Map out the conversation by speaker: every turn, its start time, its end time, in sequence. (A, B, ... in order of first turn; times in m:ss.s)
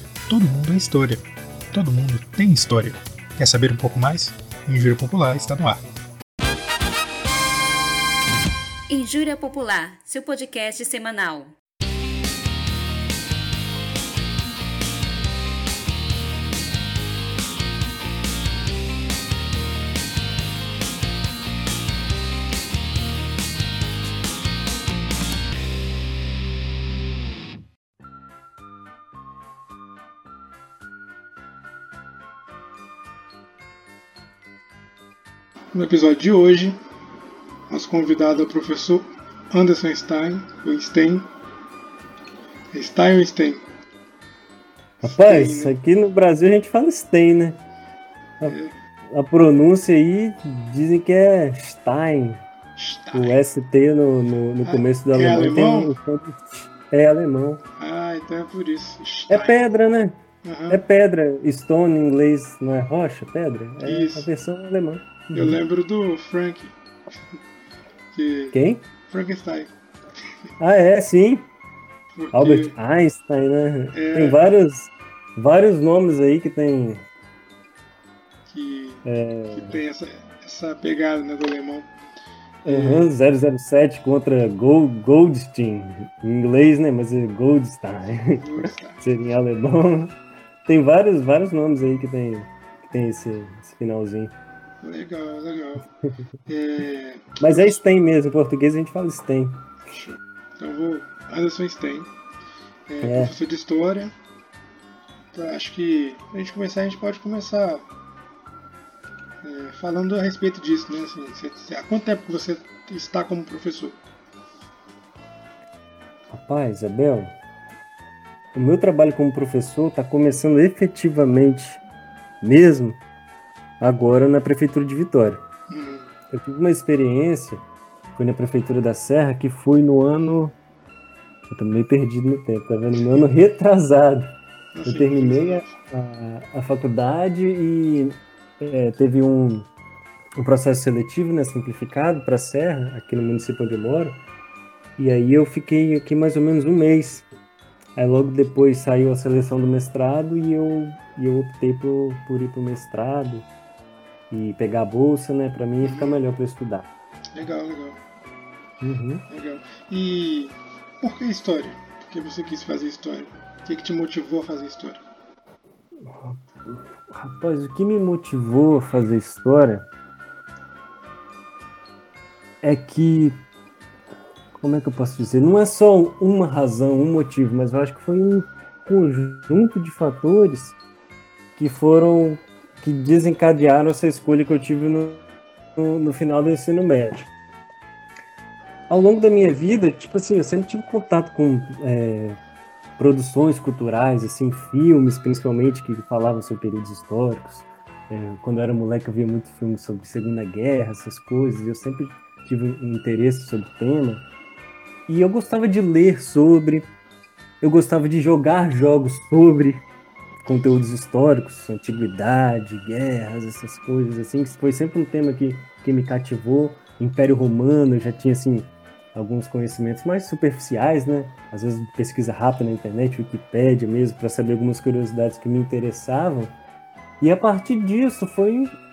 0:00.3-0:05.8 A
0:08.9-0:11.5 B
0:35.7-0:36.8 A
0:37.7-0:41.2 A
0:42.7-0:43.6 A
0:45.0-0:45.7 A
0:45.0-0:47.6 C
0:48.4-0:48.7 A
0:49.1-0:52.4 C
0:52.8-0:53.4 A
0:53.1-0:57.6 C
0:54.6-0:55.9 A
0:57.8-0:59.6 A
0:59.3-1:05.6 C
1:00.4-1:00.8 A
1:03.8-1:04.3 A
1:05.3-1:06.7 A
1:08.1-1:08.6 A
1:08.5-1:08.8 C
1:09.1-1:09.7 A
1:10.6-1:11.5 C
1:12.2-1:12.8 A
1:12.3-1:17.0 C
1:13.9-1:14.4 A
1:18.5-1:21.9 A
1:19.0-1:19.8 C
1:22.6-1:34.3 C
1:22.6-1:23.1 A
1:28.4-1:29.0 A
1:34.8-1:35.8 A
1:36.5-1:37.7 A
1:37.4-1:39.7 C
1:39.9-1:42.1 A
1:42.9-1:44.1 A
1:43.0-1:43.4 C
1:45.3-1:47.8 A
1:49.4-1:54.0 A
1:56.3-1:57.4 C
1:58.5-2:01.8 C
2:02.4-2:03.0 C
2:03.8-2:05.4 C
2:05.7-2:06.1 A
2:06.3-2:10.6 C
2:11.5-2:19.7 C
2:14.7-2:15.7 A
2:20.4-2:24.2 C
2:25.0-2:27.3 C
2:28.0-2:33.5 C
2:34.3-2:36.9 C
2:35.8-2:36.2 A
2:37.3-2:38.0 A
2:38.8-2:39.2 C
2:39.3-2:45.0 A
2:46.0-2:49.9 C
2:52.6-2:53.4 C
2:54.6-3:00.8 C
3:01.6-3:05.2 C
3:05.8-3:07.3 C
3:08.9-3:12.4 C
3:13.0-3:24.2 C
3:25.1-3:26.9 C
3:27.6-3:29.8 C
3:30.4-3:46.6 C
3:47.2-3:48.7 C